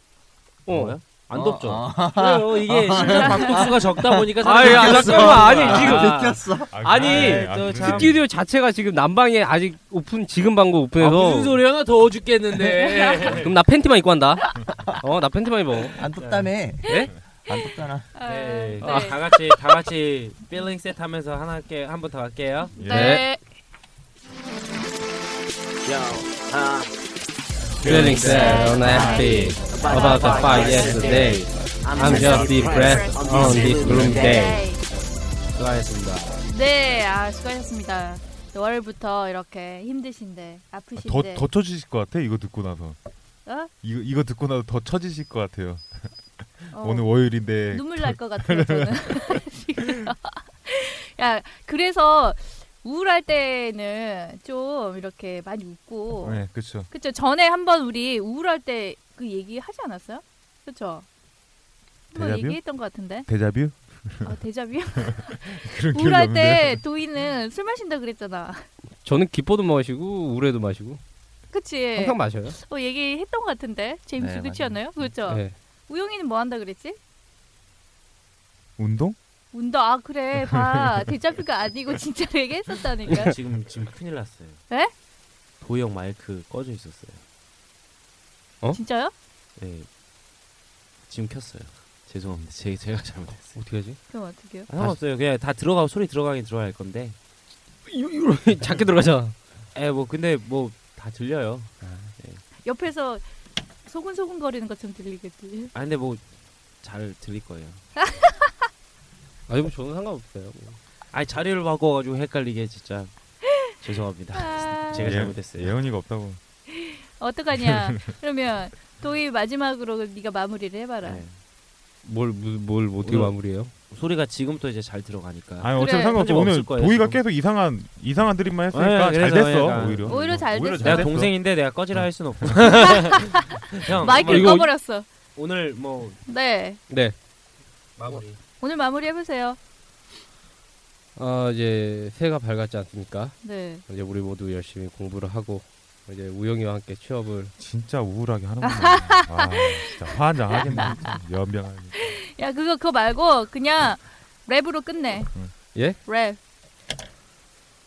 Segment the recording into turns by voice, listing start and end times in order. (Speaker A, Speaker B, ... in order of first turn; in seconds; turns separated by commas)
Speaker A: 0.7-1.0, Speaker B: 0.7-6.4, Speaker C: 1.3-4.1, Speaker D: 3.2-3.7, Speaker A: 4.4-11.6, Speaker C: 4.7-6.7, Speaker E: 6.7-8.2, Speaker B: 6.9-8.2, Speaker B: 11.0-13.6, Speaker D: 12.7-13.3, Speaker A: 13.3-16.0, Speaker C: 15.9-18.1, Speaker B: 16.2-16.5, Speaker A: 16.8-17.1, Speaker D: 18.1-19.2, Speaker B: 18.2-22.8, Speaker A: 18.8-19.2, Speaker E: 22.8-23.2, Speaker D: 22.8-23.4, Speaker A: 22.9-23.3, Speaker F: 25.9-26.9, Speaker E: 27.7-29.7, Speaker A: 27.8-34.6, Speaker D: 28.1-31.4, Speaker F: 28.8-34.6, Speaker B: 31.8-32.6, Speaker D: 32.0-34.8, Speaker B: 33.6-34.3, Speaker B: 35.5-36.5, Speaker D: 36.5-41.5, Speaker E: 41.0-43.0, Speaker D: 43.5-43.7, Speaker E: 43.8-50.0, Speaker D: 46.7-61.1, Speaker E: 56.2-56.9, Speaker D: 62.1-63.3, Speaker E: 62.1-64.4, Speaker D: 64.2-68.7, Speaker E: 65.2-66.8, Speaker A: 69.0-71.0, Speaker D: 71.5-77.0, Speaker A: 71.9-72.6, Speaker C: 74.2-74.8, Speaker A: 75.1-75.5, Speaker E: 78.8-79.2, Speaker D: 79.5-83.3, Speaker B: 83.1-84.6, Speaker B: 85.6-87.2, Speaker D: 88.7-89.1, Speaker B: 89.6-89.9, Speaker B: 91.1-93.6, Speaker A: 93.5-95.0, Speaker D: 94.1-94.7, Speaker B: 94.7-97.2, Speaker A: 97.9-99.4, Speaker B: 99.7-102.4, Speaker A: 101.8-102.1, Speaker D: 102.6-103.3, Speaker D: 103.8-105.7, Speaker B: 105.7-106.2, Speaker B: 106.8-107.9, Speaker D: 108.0-108.4, Speaker A: 109.5-110.8, Speaker B: 111.1-113.1, Speaker B: 113.7-115.8, Speaker D: 114.3-115.2, Speaker E: 115.0-116.4, Speaker D: 116.7-121.2, Speaker E: 117.7-118.0, Speaker B: 121.0-121.4, Speaker A: 122.0-123.7, Speaker B: 123.0-123.4, Speaker B: 123.9-127.2, Speaker E: 125.6-132.7, Speaker D: 125.8-126.2, Speaker B: 128.7-136.2, Speaker D: 130.1-131.1, Speaker D: 134.0-135.1, Speaker A: 134.2-134.7, Speaker D: 136.3-136.8, Speaker A: 136.9-137.2, Speaker B: 138.0-138.4, Speaker D: 138.6-139.6, Speaker A: 141.2-147.5, Speaker D: 143.4-143.8, Speaker E: 147.6-152.1, Speaker D: 148.7-149.4, Speaker D: 150.6-151.2, Speaker D: 152.0-156.4, Speaker A: 155.7-156.1